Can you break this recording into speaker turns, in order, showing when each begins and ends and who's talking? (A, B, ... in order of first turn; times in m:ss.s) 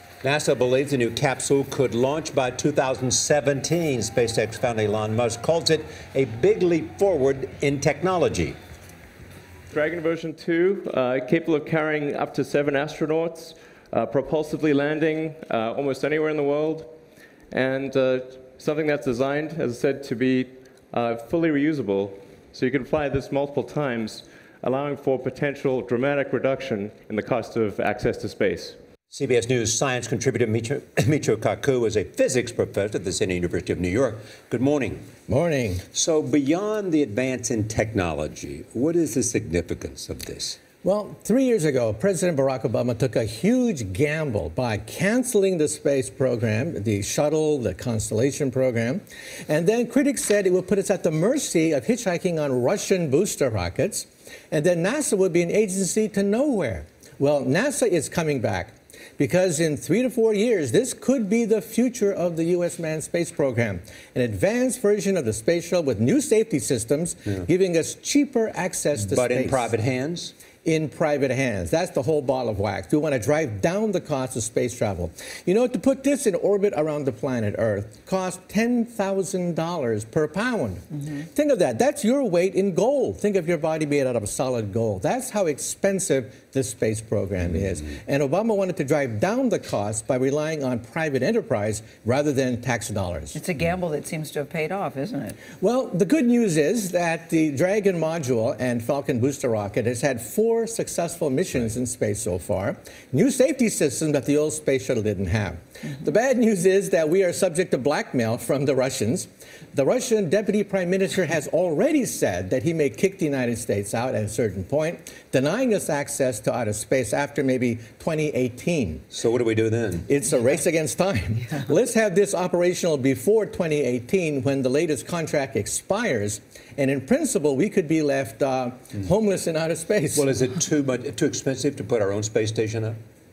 0:00.2-0:08.6 A
0:09.7-0:16.9 B
0:17.5-0:28.8 B
0:29.1-0:35.0 A
0:35.3-0:35.8 C
0:35.9-0:40.6 A
0:40.8-1:09.7 C
1:09.0-1:10.3 A
1:10.6-1:33.4 C
1:33.3-1:35.4 D
1:35.6-1:59.1 C
1:59.1-2:00.1 A
2:00.1-2:10.3 C
2:10.2-2:13.0 A